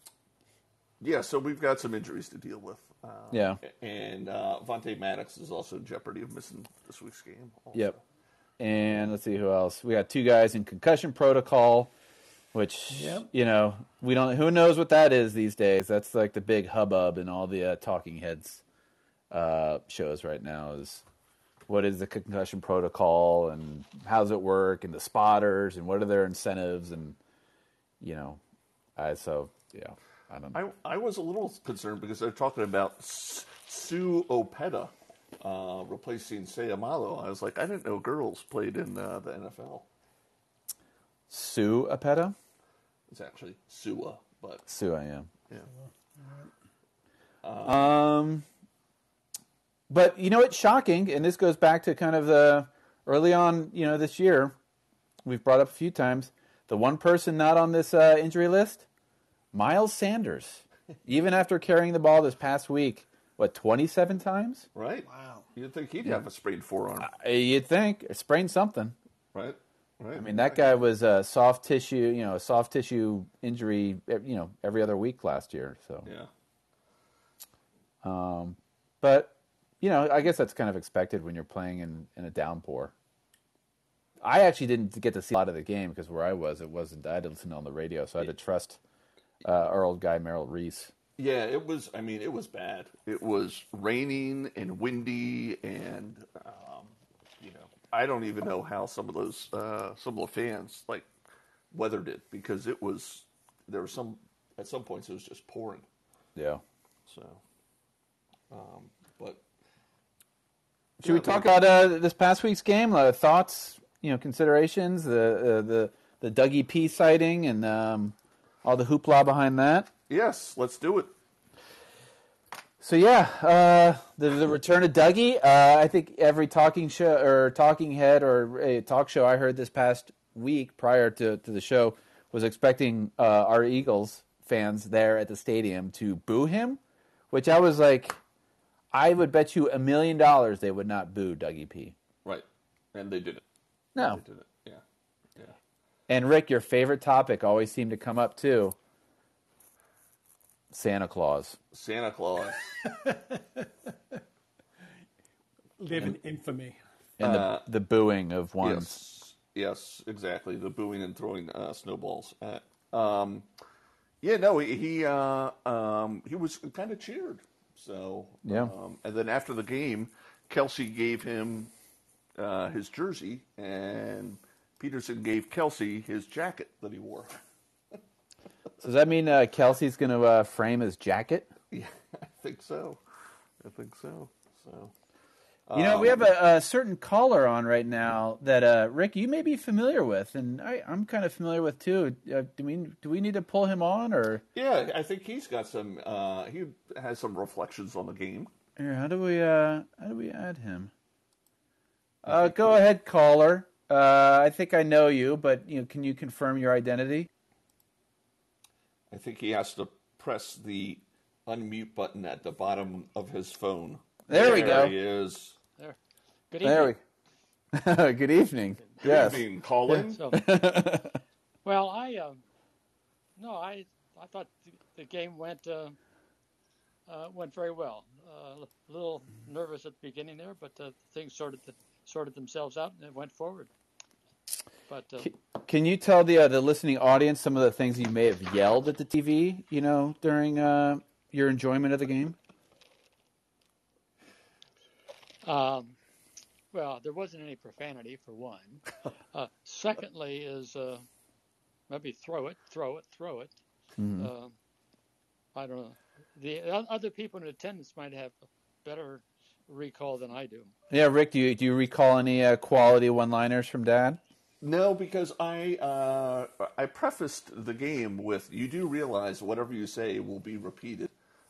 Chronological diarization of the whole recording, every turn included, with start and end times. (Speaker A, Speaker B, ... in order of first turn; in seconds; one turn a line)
Speaker A: 1.0-8.0
Speaker B: 3.3-3.6
Speaker B: 8.6-11.9
Speaker B: 12.5-18.6
Speaker C: 12.9-13.3
Speaker B: 19.3-21.0
Speaker B: 21.7-27.2
Speaker B: 28.0-28.4
Speaker B: 28.9-30.6
Speaker A: 30.5-39.9
Speaker B: 41.3-42.4
Speaker A: 43.1-44.6
Speaker B: 44.7-45.3
Speaker C: 45.7-46.5
Speaker A: 47.4-47.9
Speaker B: 47.6-48.4
Speaker B: 49.9-54.5
Speaker B: 55.2-58.8
Speaker B: 59.5-64.7
Speaker A: 64.7-67.1
Speaker C: 65.0-65.4
Speaker B: 67.0-68.9
Speaker A: 69.3-70.3
Speaker B: 70.2-76.1
Speaker A: 76.0-76.3
Speaker B: 78.0-82.9
Speaker B: 84.2-88.8
Speaker B: 89.4-90.9
Speaker A: 91.2-101.1
Speaker A: 101.7-105.9
Speaker B: 106.3-106.6
Speaker A: 107.1-107.4
Speaker A: 108.5-109.4
Speaker B: 111.0-119.9
Speaker A: 111.0-111.5
Speaker A: 120.1-121.1
Speaker B: 122.8-136.8
Speaker B: 137.3-138.2
Speaker B: 138.9-141.9
Speaker A: 142.2-143.4
Speaker B: 143.9-144.2
Speaker A: 144.0-144.8
Speaker B: 146.1-148.7
Speaker B: 150.7-151.6
Speaker A: 151.7-152.8
Speaker C: 152.8-153.9
Speaker C: 155.8-156.8
Speaker B: 157.2-159.0
Speaker A: 157.2-157.7
Speaker A: 158.6-163.5
Speaker A: 164.2-171.7
Speaker B: 168.4-168.7
Speaker A: 172.4-177.3
Speaker B: 178.8-181.5
Speaker A: 181.7-183.0
Speaker A: 183.6-184.9
Speaker A: 185.7-186.2
Speaker B: 185.7-194.4
Speaker A: 194.5-198.5
Speaker B: 198.8-200.9
Speaker B: 202.2-207.3
Speaker A: 202.2-202.8
Speaker A: 209.1-215.5
Speaker B: 214.3-215.0
Speaker D: 214.4-214.8
Speaker D: 216.5-216.9
Speaker B: 216.6-217.0
Speaker B: 217.7-221.2
Speaker A: 219.0-220.2
Speaker D: 220.1-220.4
Speaker D: 221.6-222.4
Speaker D: 223.4-226.0
Speaker D: 227.1-233.7
Speaker D: 234.9-235.3
Speaker B: 235.2-242.4
Speaker D: 245.4-246.0
Speaker D: 246.7-251.1
Speaker D: 251.9-253.6
Speaker B: 254.0-254.3
Speaker D: 254.2-254.5
Speaker D: 255.5-260.7
Speaker B: 260.9-264.2
Speaker A: 264.6-271.1